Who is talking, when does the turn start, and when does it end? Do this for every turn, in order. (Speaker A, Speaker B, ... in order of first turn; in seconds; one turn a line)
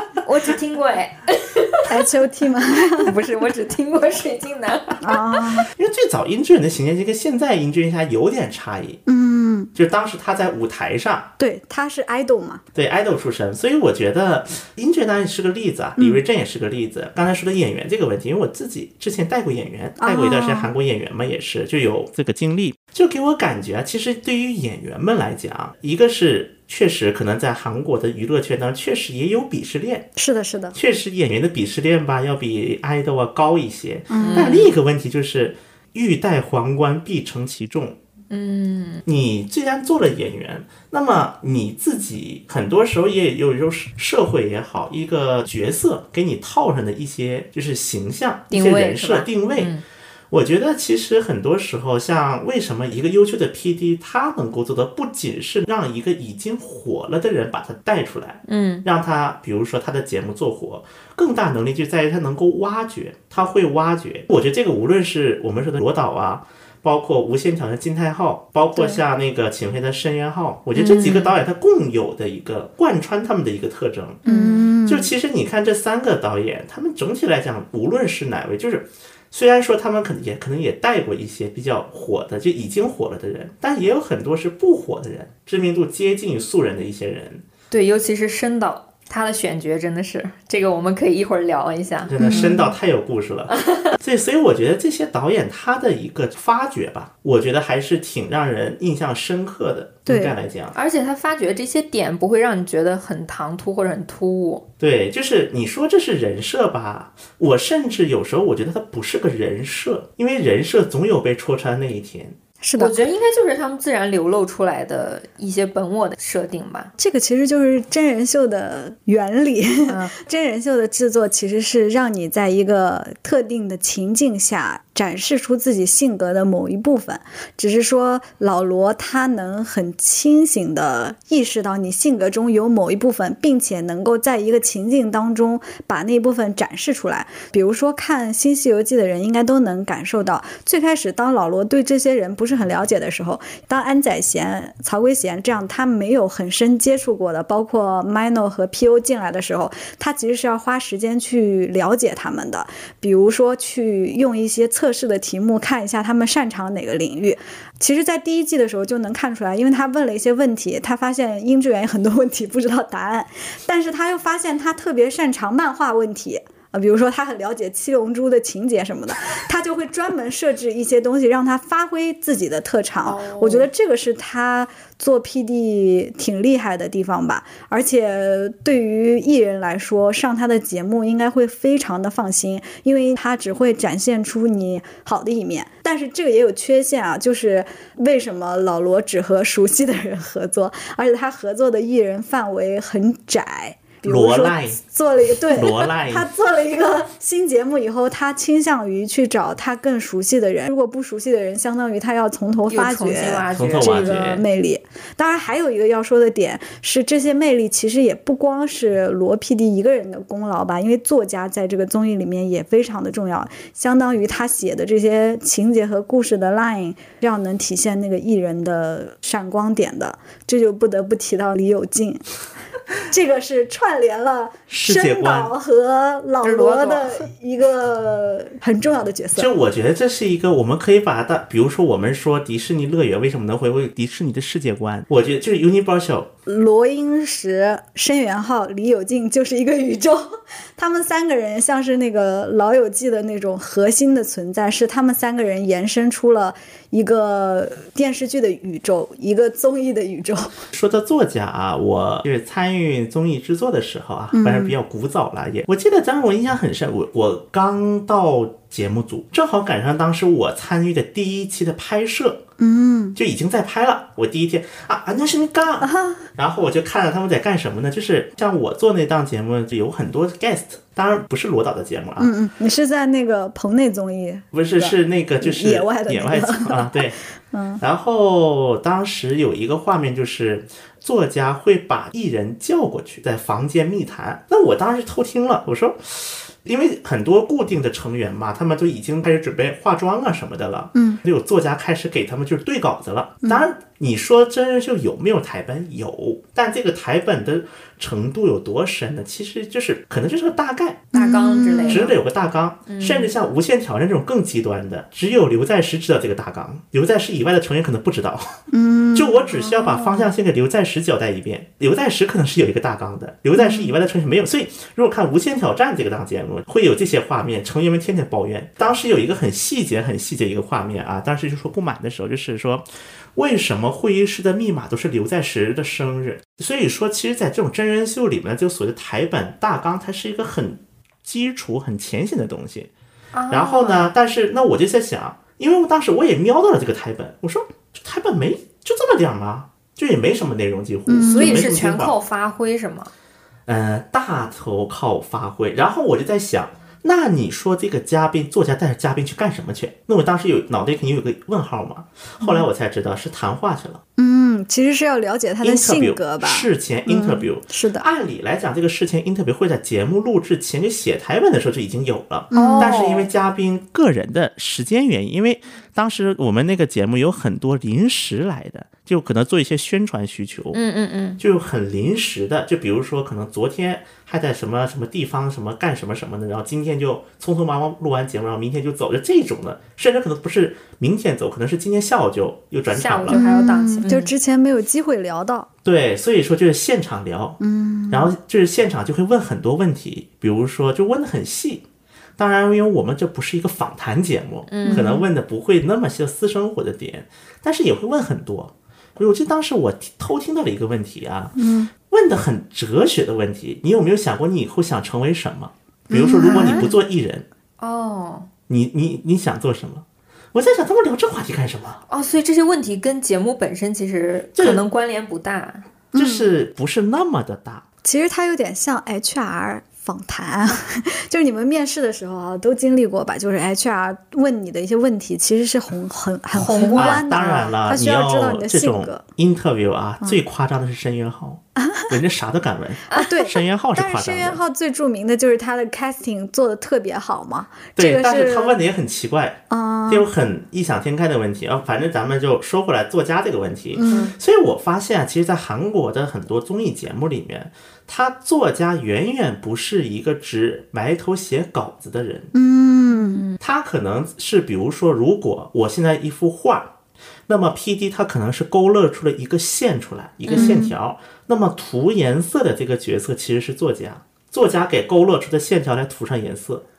Speaker A: 0.2-2.0
Speaker B: 1.8-3.1
Speaker A: 2.9-5.5
Speaker B: 5.0-5.7
Speaker C: 5.7-9.0
Speaker B: 9.1-9.7
Speaker C: 9.7-11.3
Speaker B: 11.4-12.6
Speaker C: 12.7-30.1
Speaker B: 20.0-20.7
Speaker B: 30.1-30.8
Speaker C: 30.7-38.0
Speaker B: 34.1-34.5
Speaker A: 34.2-34.7
Speaker A: 38.3-39.0
Speaker C: 39.0-49.7
Speaker A: 48.5-49.8
Speaker C: 50.3-74.2
Speaker A: 58.5-58.8
Speaker A: 70.7-71.3
Speaker A: 74.2-74.7
Speaker B: 74.2-75.1
Speaker C: 74.9-87.4
Speaker A: 87.7-92.7
Speaker C: 92.1-100.8
Speaker B: 92.2-92.7
Speaker A: 93.5-93.9
Speaker B: 100.0-100.3
Speaker A: 100.7-104.6
Speaker C: 104.8-112.4
Speaker B: 112.6-113.0
Speaker A: 112.8-116.9
Speaker B: 117.0-222.2
Speaker A: 119.9-120.1
Speaker A: 173.0-173.7
Speaker C: 194.0-194.8
Speaker C: 195.5-196.3
Speaker A: 202.7-204.4
Speaker C: 203.5-204.4
Speaker B: 223.0-229.5
Speaker C: 224.7-225.5
Speaker A: 226.4-227.2
Speaker C: 229.3-236.3
Speaker B: 236.4-250.5
Speaker C: 250.7-262.4
Speaker B: 254.3-254.8
Speaker B: 262.6-263.2
Speaker C: 263.1-272.3
Speaker B: 265.8-266.2
Speaker B: 272.2-277.0
Speaker C: 274.5-277.2
Speaker B: 277.5-277.8
Speaker C: 277.8-301.1
Speaker B: 290.9-291.2
Speaker B: 293.4-293.7
Speaker B: 301.1-302.1
Speaker A: 301.1-302.1
Speaker C: 301.9-308.6
Speaker A: 302.9-303.3
Speaker B: 308.7-309.3
Speaker C: 309.1-322.8
Speaker A: 309.5-310.3
Speaker B: 313.6-313.9
Speaker C: 323.3-332.9
Speaker A: 333.3-334.1
Speaker C: 333.5-342.1
Speaker B: 341.1-341.7
Speaker A: 341.3-343.1
Speaker C: 343.7-354.0
Speaker B: 354.2-358.1
Speaker C: 355.6-370.8
Speaker B: 362.5-363.1
Speaker A: 362.5-363.2
Speaker A: 370.7-371.4
Speaker C: 371.4-383.4
Speaker A: 382.9-384.3
Speaker B: 383.3-385.7
Speaker C: 385.8-391.8
Speaker B: 387.6-388.3
Speaker C: 392.4-401.6
Speaker A: 394.7-395.2
Speaker B: 394.8-395.2
Speaker B: 401.6-401.9
Speaker C: 402.1-407.4
Speaker B: 406.1-406.9
Speaker A: 406.4-406.9
Speaker A: 407.8-408.5
Speaker C: 408.7-412.0
Speaker A: 412.1-415.8
Speaker C: 414.6-414.8
Speaker B: 416.1-416.5
Speaker C: 416.1-417.8
Speaker B: 418.0-429.2
Speaker A: 426.5-427.2
Speaker C: 426.9-434.6
Speaker B: 433.1-438.8
Speaker C: 437.9-452.5
Speaker B: 439.7-440.3
Speaker B: 443.9-444.3
Speaker A: 444.1-444.3
Speaker B: 452.5-453.4
Speaker A: 453.1-453.6
Speaker C: 453.6-456.9
Speaker C: 457.5-466.8
Speaker A: 460.5-460.9
Speaker B: 460.5-460.9